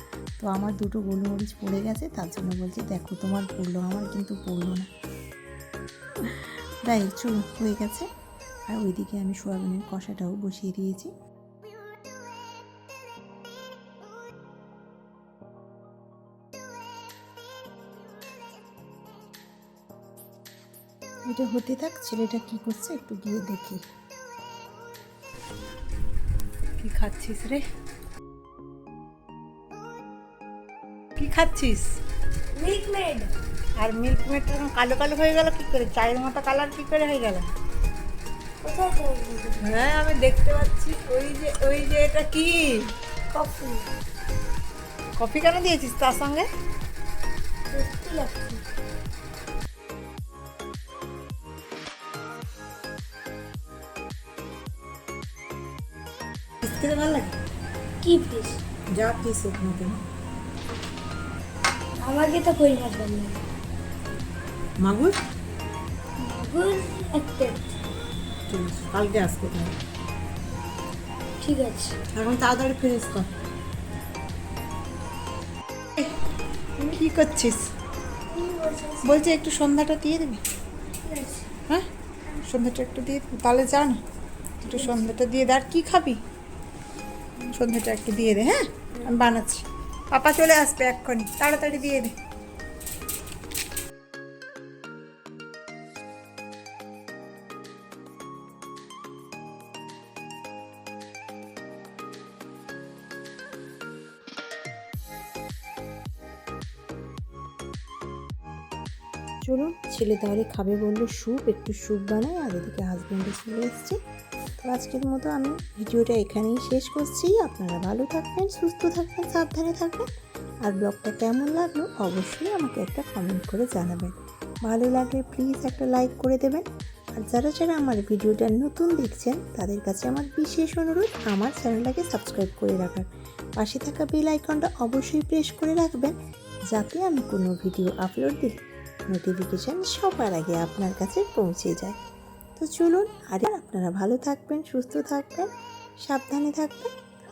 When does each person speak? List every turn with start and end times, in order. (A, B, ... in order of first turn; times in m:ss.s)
0:00.4-0:04.9 A
0:06.2-0:08.1 A
0:08.7-0:11.1 A
0:21.3-0:23.8 A
0:26.8-0:27.6 B
0:31.2-0:31.9 B
0:32.5-0:33.3 C
0:33.8-0:37.5 B
0:38.6-0:39.6 C
0:39.6-0:42.6 B
0:43.3-0:43.9 C
0:45.2-0:46.5 B
0:47.7-0:48.6 C
0:56.6-0:57.3 B
0:58.0-0:58.6 C
0:58.9-1:00.0 B
1:02.0-1:03.4 C
1:04.8-1:05.2 B
1:06.2-1:07.7 C
1:08.5-1:09.8 B
1:11.4-1:12.0 C
1:12.1-1:13.3 B
1:16.9-1:17.7 B
1:18.3-1:19.2 C
1:19.0-1:20.4 B
1:21.0-1:21.5 C
1:22.4-1:24.0 B
1:24.6-1:25.1 C
1:24.7-1:26.2 B
1:27.5-1:32.1 B
1:49.4-1:54.0 A
1:54.6-2:00.1 A
2:00.6-2:06.6 A
2:07.2-2:16.2 A
2:16.7-2:22.0 A
2:22.6-2:25.5 A
2:26.0-2:26.9 A